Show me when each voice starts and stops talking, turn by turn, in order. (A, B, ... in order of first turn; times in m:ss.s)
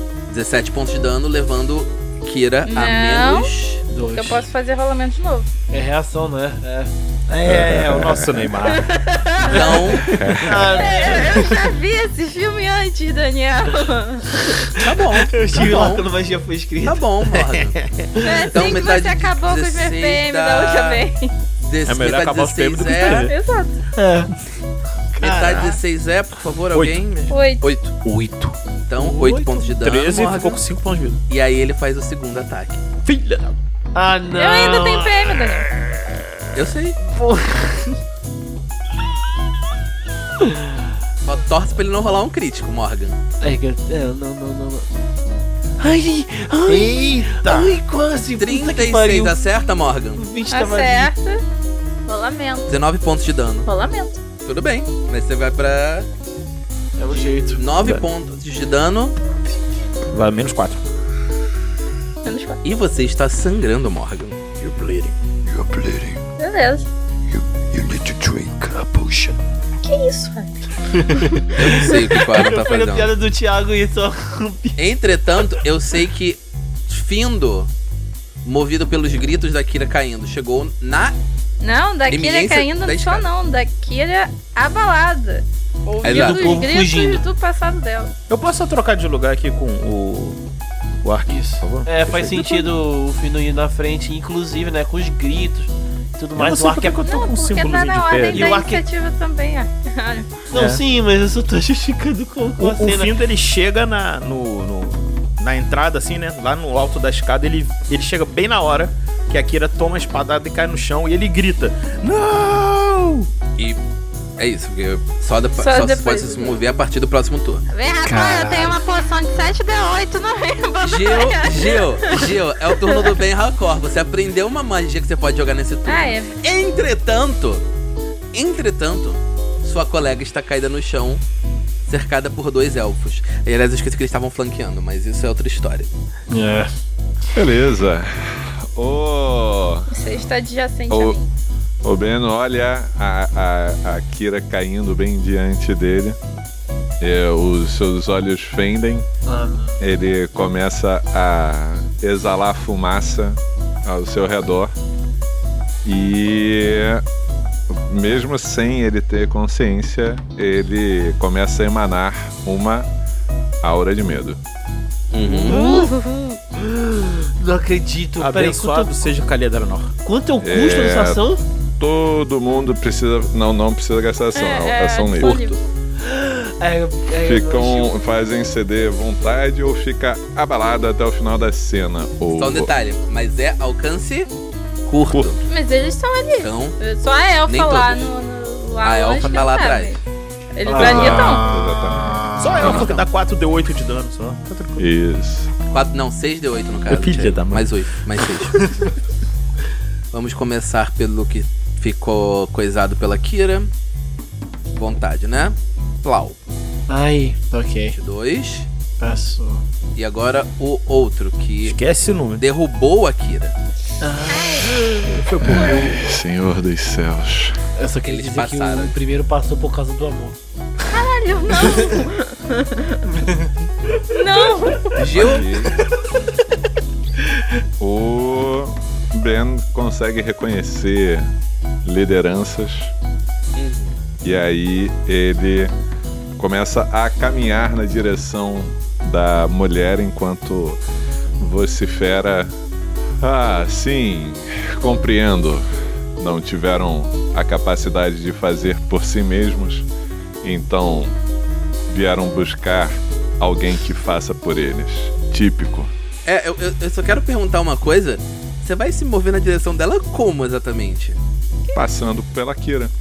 0:00.3-0:03.8 A
0:02.7-0:03.5 B
0:03.9-0:04.4 C
0:04.0-0:05.5 B
0:05.7-0:06.9 C
0:07.3-0:09.0 D
0:07.4-0:08.3 E
0:08.7-0:09.8 B
0:09.4-0:10.1 A
0:09.4-0:11.6 C
0:10.0-0:10.7 D
0:10.1-0:10.9 E
0:10.8-0:14.5 B
0:14.7-0:17.6 C
0:14.8-0:16.0 A
0:16.8-0:17.8 A
0:17.8-0:18.1 D
0:18.2-0:18.5 C
0:18.2-0:21.3 B
0:18.5-0:21.0 A
0:21.6-0:23.3 A
0:21.8-0:23.3 D
0:23.1-0:23.8 B
0:24.0-0:24.3 C
0:25.1-0:25.8 C
0:25.2-0:27.9 A
0:26.7-0:27.0 D
0:27.3-0:27.6 B
0:28.0-0:28.5 D
0:28.9-0:30.6 A
0:29.0-0:29.7 C
0:29.8-0:31.2 D
0:31.3-0:32.8 A
0:33.0-0:33.6 D
0:33.9-0:36.2 C
0:34.3-0:35.7 B
0:36.5-0:37.0 A
0:37.1-0:38.0 C
0:40.4-0:40.8 C
0:41.2-0:43.2 A
0:43.4-0:44.8 C
0:45.8-0:49.3 C
0:46.7-0:47.8 D
0:48.4-0:50.2 A
0:50.2-0:51.1 C
0:50.5-0:51.4 B
0:52.0-0:52.7 B
0:52.7-0:53.7 A
0:53.6-0:54.2 B
0:54.4-0:56.1 A
0:57.0-0:57.7 C
0:57.6-0:59.2 A
0:57.8-0:58.0 D
1:00.1-1:00.8 D
1:02.2-1:02.6 B
1:02.6-1:04.4 A
1:04.5-1:05.1 D
1:05.4-1:06.2 F
1:06.4-1:06.9 B
1:07.6-1:09.4 F
1:09.8-1:11.9 B
1:11.1-1:14.8 C
1:11.6-1:13.1 A
1:14.8-1:17.7 A
1:18.4-1:21.1 A
1:21.6-1:28.1 B
1:22.1-1:23.3 A
1:26.0-1:26.5 A
1:26.0-1:27.2 C
1:28.3-1:30.4 D
1:31.0-1:32.7 D
1:31.3-1:37.0 C
1:36.3-1:38.6 D
1:37.0-1:40.4 B
1:38.3-1:38.8 C
1:40.5-1:43.1 C
1:40.5-1:40.8 D
1:42.6-1:53.3 D
1:54.4-1:57.6 A
1:55.6-1:56.5 B
1:57.7-2:03.1 B
1:58.0-1:58.8 C
2:00.8-2:07.6 A
2:05.8-2:06.3 B
2:08.3-2:11.2 A
2:11.8-2:15.9 A
2:16.3-2:16.7 C
2:17.3-2:19.9 E
2:19.9-2:21.2 B
2:20.9-2:21.2 E
2:21.8-2:26.2 E
2:27.0-2:29.1 E
2:29.3-2:29.8 C
2:29.8-2:34.7 E
2:35.8-2:37.0 E
2:37.7-2:42.9 E
2:43.6-2:44.4 E
2:45.1-2:45.6 A
2:45.3-2:49.1 C
2:45.5-2:46.2 B
2:48.2-2:49.9 D
2:50.0-2:51.4 C
2:50.4-2:51.2 E
2:51.8-2:55.4 E
2:54.3-2:55.6 B
2:55.2-2:55.6 A
2:56.0-2:57.9 C
2:57.2-3:02.7 E
3:02.4-3:04.3 A
3:04.8-3:05.4 A
3:05.5-3:10.0 B
3:06.4-3:06.8 A
3:07.5-3:08.1 A
3:08.8-3:10.0 A
3:10.5-3:11.4 B
3:10.6-3:11.4 C
3:10.8-3:12.9 E
3:10.8-3:14.8 D
3:12.6-3:13.0 A
3:14.8-3:15.5 E
3:15.7-3:18.7 A
3:16.9-3:17.7 D
3:18.2-3:18.6 D
3:20.1-3:23.7 A
3:24.7-3:26.4 A
3:26.9-3:28.0 C
3:27.9-3:28.7 A
3:29.0-3:29.6 C
3:30.0-3:31.8 A
3:31.6-3:32.4 D
3:32.4-3:33.5 A
3:34.0-3:36.0 C
3:34.3-3:34.7 B
3:35.1-3:35.9 D
3:35.4-3:37.6 E
3:37.8-3:40.4 C
3:38.0-3:38.9 A
3:40.9-3:43.1 B
3:41.6-3:41.9 C
3:43.2-3:43.5 C
3:44.1-3:45.0 B
3:45.0-3:45.4 A
3:45.1-3:45.8 E
3:47.8-3:51.3 E
3:51.8-3:52.9 E
3:53.6-3:54.0 A
3:54.2-3:55.7 E
3:56.4-4:00.8 E
4:01.4-4:02.5 E
4:03.2-4:05.6 E
4:06.2-4:09.9 E
4:10.4-4:11.2 E
4:11.9-4:15.9 E
4:16.2-4:21.2 A
4:21.7-4:22.9 E